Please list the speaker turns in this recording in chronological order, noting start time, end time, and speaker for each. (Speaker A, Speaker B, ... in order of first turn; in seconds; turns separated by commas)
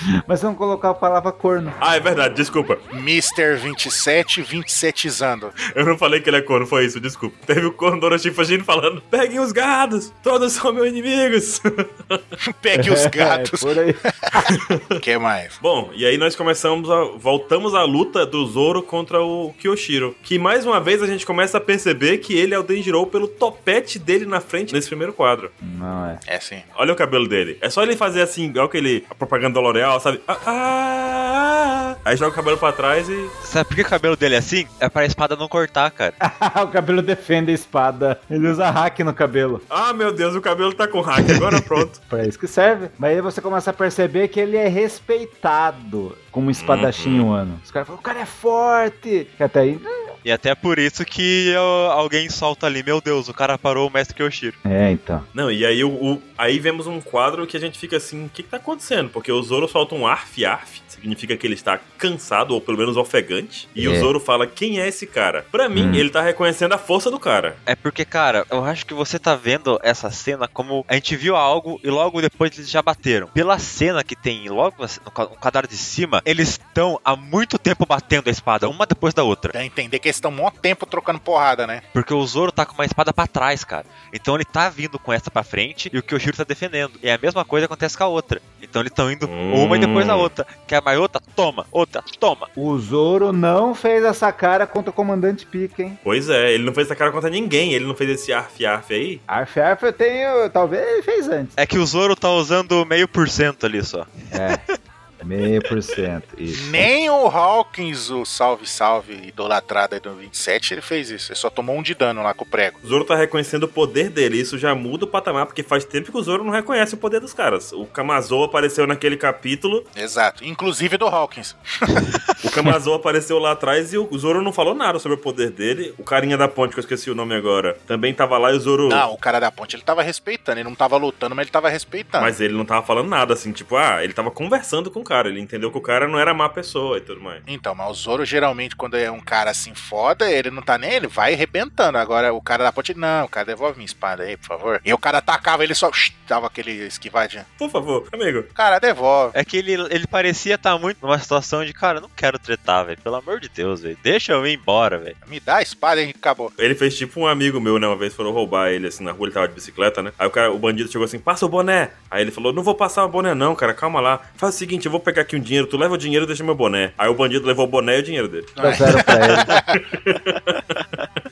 Speaker A: 0.3-1.8, Speaker B: 1.8-2.8, Speaker C: 2.9-5.6, Speaker B: 5.7-12.2, Speaker C: 12.4-15.5, Speaker A: 12.7-14.5, Speaker B: 14.5-15.0, Speaker B: 15.6-25.5, Speaker A: 25.6-26.2, Speaker C: 26.2-26.6, Speaker B: 26.8-33.3, Speaker D: 33.4-36.2, Speaker A: 36.2-39.6, Speaker B: 39.7-42.0, Speaker A: 42.0-50.1, Speaker B: 46.5-47.3, Speaker D: 50.2-54.6, Speaker A: 54.6-55.2, Speaker B: 55.3-67.6, Speaker A: 63.8-64.1, Speaker A: 65.8-66.1, Speaker D: 67.7-79.5, Speaker C: 79.5-81.8, Speaker D: 81.9-92.5, Speaker B: 89.2-90.3, Speaker A: 92.6-96.0, Speaker B: 96.0-99.2, Speaker A: 99.3-101.5, Speaker D: 101.6-104.6, Speaker A: 104.3-104.6, Speaker A: 105.2-106.8, Speaker C: 106.5-112.8, Speaker B: 112.8-119.9, Speaker C: 120.0-122.0, Speaker B: 122.4-129.1, Speaker C: 128.9-132.3, Speaker B: 132.2-137.4, Speaker C: 137.5-147.5, Speaker B: 147.6-148.5, Speaker C: 148.6-149.3, Speaker D: 149.3-155.2, Speaker C: 155.3-156.5, Speaker B: 156.6-171.0, Speaker C: 168.6-169.8, Speaker A: 168.6-169.5